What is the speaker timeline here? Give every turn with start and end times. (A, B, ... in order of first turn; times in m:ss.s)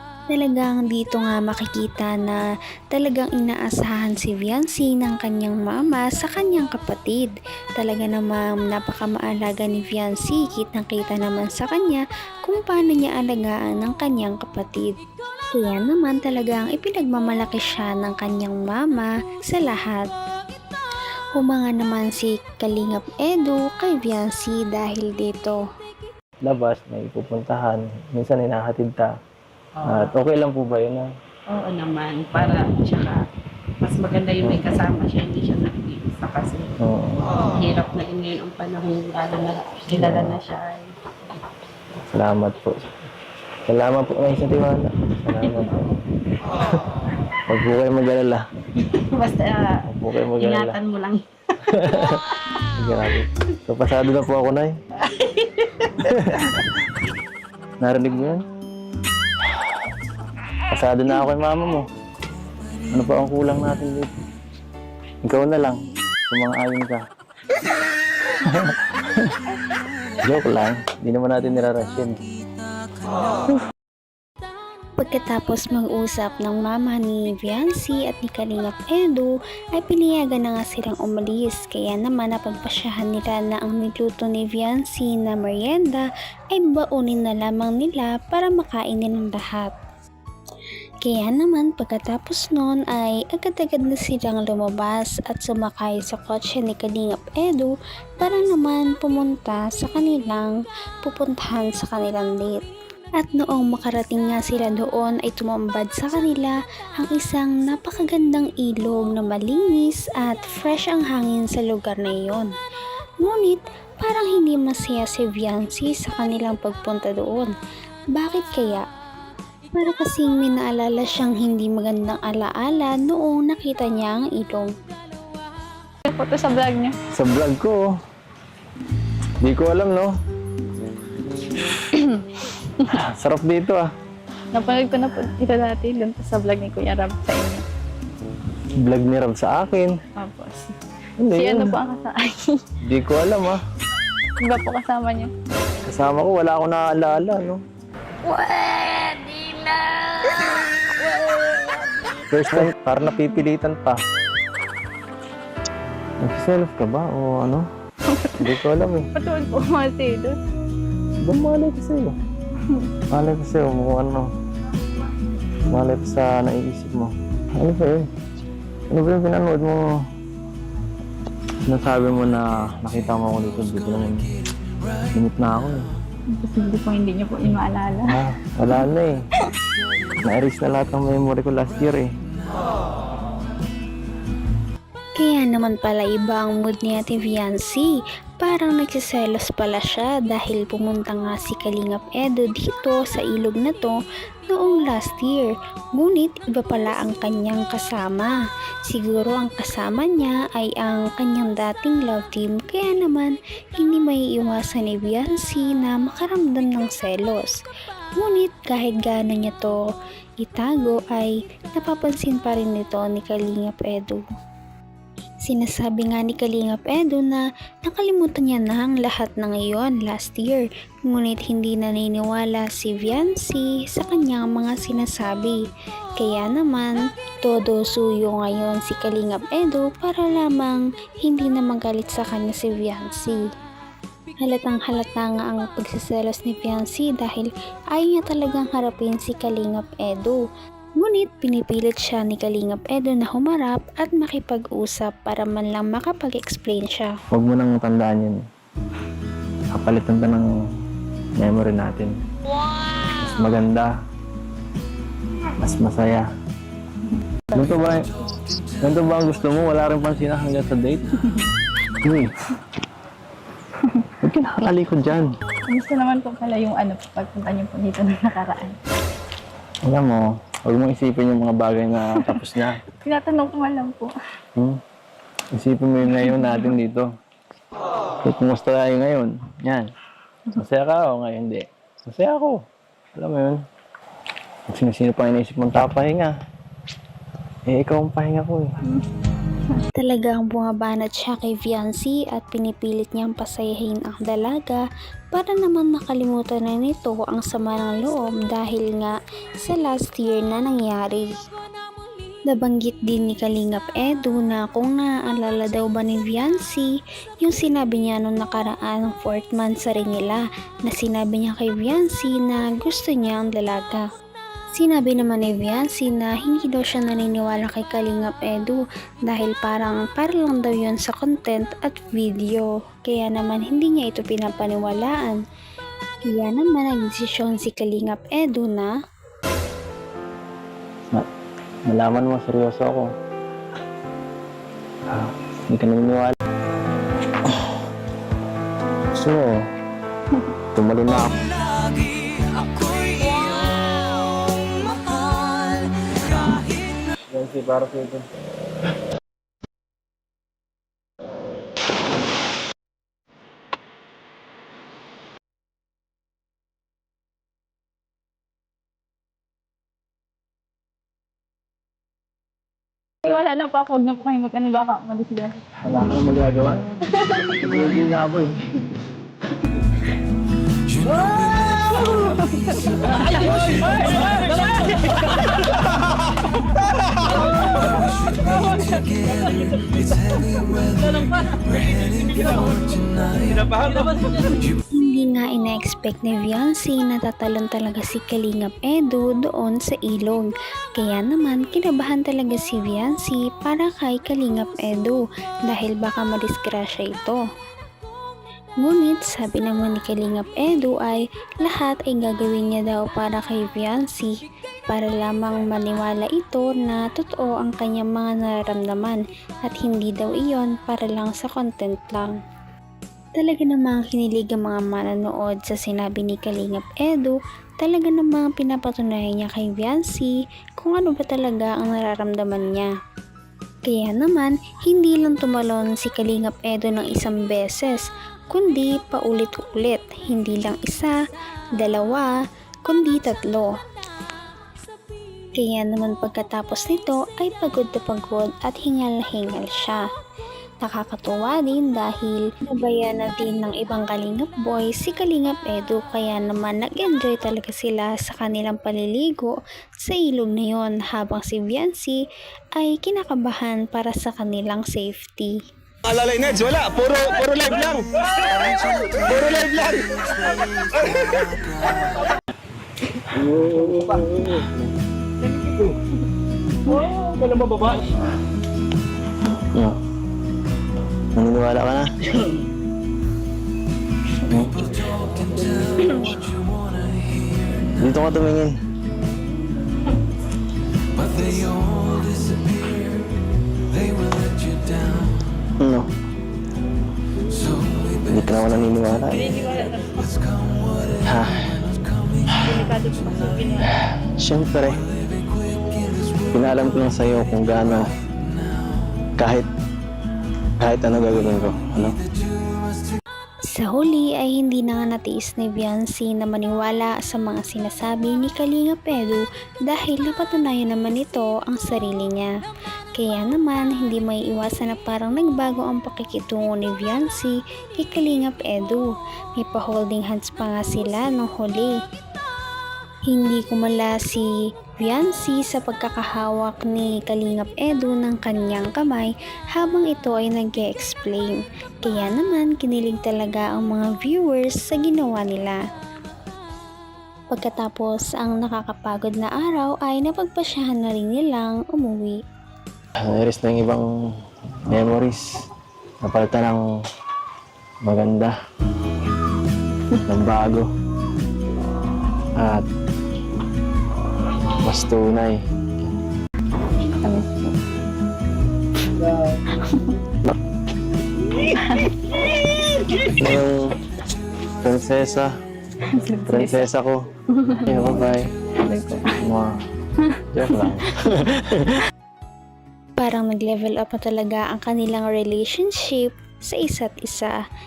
0:00.3-0:15.0 A
0:15.5-0:20.1 A
0:21.4-0:25.6 A
0:26.4-0:29.1 B
0:29.8-0:30.1 C
0:29.8-0:31.1 B
0:31.5-0:33.2 C
0:33.8-0:36.8 C
0:34.4-0:34.7 B
0:36.8-0:37.3 B
0:37.4-0:40.9 C
0:39.9-0:40.4 B
0:42.1-0:42.9 B
0:43.7-0:45.9 B
0:47.5-0:48.4 B
0:48.8-0:52.2 C
0:49.9-0:50.8 B
0:51.7-0:52.2 B
0:52.8-0:54.8 B
0:55.1-0:55.9 C
0:56.0-0:56.6 B
0:57.8-0:58.4 B
1:00.7-1:01.9 B
1:02.9-1:04.2 B
1:05.2-1:07.0 B
1:08.4-1:09.3 B
1:10.2-1:12.2 B
1:15.0-1:29.7 A
1:31.0-1:40.5 A
1:41.0-1:42.6 A
1:43.2-1:52.5 A
1:53.2-1:57.5 A
1:58.2-1:58.8 A
1:59.8-2:04.7 A
2:06.1-2:07.0 D
2:07.1-2:07.8 B
2:09.4-2:10.1 B
2:11.9-2:12.2 D
2:12.9-2:13.9 B
2:14.5-2:17.6 D
2:18.8-2:20.0 B
2:20.2-2:20.8 D
2:21.2-2:21.8 B
2:21.3-2:22.6 D
2:22.8-2:23.6 B
2:24.4-2:25.3 D
2:25.8-2:27.6 B
2:28.2-2:30.3 D
2:32.3-2:34.0 B
2:36.2-2:37.7 B
2:38.1-2:38.5 D
2:38.4-2:39.1 B
2:39.2-2:40.4 D
2:41.2-2:42.2 B
2:43.1-2:44.3 B
2:45.7-2:48.1 B
2:48.9-2:49.9 B
2:51.6-2:54.3 B
2:55.1-2:55.9 B
2:56.3-2:58.2 D
2:58.0-2:59.2 B
3:00.2-3:02.1 B
3:05.2-3:18.4 A
3:18.9-3:27.6 A
3:28.2-3:29.8 A
3:30.4-3:34.2 A
3:35.5-3:45.6 A
3:46.2-3:53.4 A
3:54.4-4:00.4 A
4:01.0-4:07.2 A
4:07.3-4:08.4 B
4:09.7-4:10.5 B
4:11.4-4:12.2 B
4:13.2-4:13.9 B
4:15.6-4:16.3 B
4:17.5-4:18.1 B
4:18.8-4:21.1 B
4:22.0-4:22.3 B
4:24.2-4:25.3 B
4:25.7-4:28.8 D
4:29.8-4:32.8 B
4:32.9-4:34.1 D
4:35.6-4:37.1 B
4:36.1-4:36.7 D
4:38.2-4:39.9 B
4:40.5-4:42.6 B
4:43.2-4:43.6 B
4:44.7-4:46.3 B
4:47.7-4:48.8 B
4:49.9-5:01.3 A
5:02.5-5:14.0 A
5:14.8-5:25.4 A
5:26.3-5:28.9 A
5:31.9-5:33.1 B
5:35.1-5:36.4 B
5:37.5-5:37.7 B
5:39.1-5:39.5 B
5:40.8-5:41.4 B
5:47.3-5:48.2 B
6:03.2-6:05.6 D
6:05.8-6:06.9 B
6:07.1-6:07.8 D
6:07.5-6:08.7 B
6:11.7-6:14.4 D
6:18.5-6:19.7 D
6:24.9-6:37.4 A
6:38.8-6:52.3 A
6:53.4-7:02.9 A
7:03.9-7:11.2 A
7:11.8-7:12.3 A
7:12.9-7:13.7 A
7:15.6-7:20.0 A
7:20.8-7:32.2 A
7:32.8-7:35.5 A
7:36.1-7:38.1 E
7:39.3-7:40.1 E
7:43.6-7:44.6 B
7:51.4-7:52.1 B
7:54.5-7:55.7 B
7:57.9-7:58.8 B
8:05.8-8:06.1 B
8:08.3-8:09.5 B
8:09.5-8:10.1 D
8:11.2-8:11.7 B
8:12.6-8:13.9 D
8:13.9-8:15.0 B
8:16.5-8:18.1 B
8:19.4-8:19.7 B
8:20.8-8:22.2 B
8:23.7-8:32.5 A
8:33.2-8:39.1 A
8:39.6-8:42.0 A
8:43.3-8:55.8 A
8:57.5-9:02.4 A
9:03.2-9:04.1 B
9:04.9-9:05.7 B
9:06.2-9:06.8 B
9:08.0-9:08.6 B
9:10.2-9:10.9 B
9:12.6-9:12.9 B
9:14.8-9:15.6 B
9:17.1-9:17.8 D
9:19.7-9:20.0 D
9:21.7-9:22.2 D
9:23.3-9:24.0 B
9:24.7-9:25.5 B
9:26.1-9:26.9 D
9:26.5-9:27.2 B
9:27.5-9:28.1 D
9:27.8-9:28.5 B
9:28.8-9:29.5 D
9:29.4-9:29.7 B
9:30.2-9:31.0 D
9:30.5-9:32.0 B
9:33.2-9:37.6 A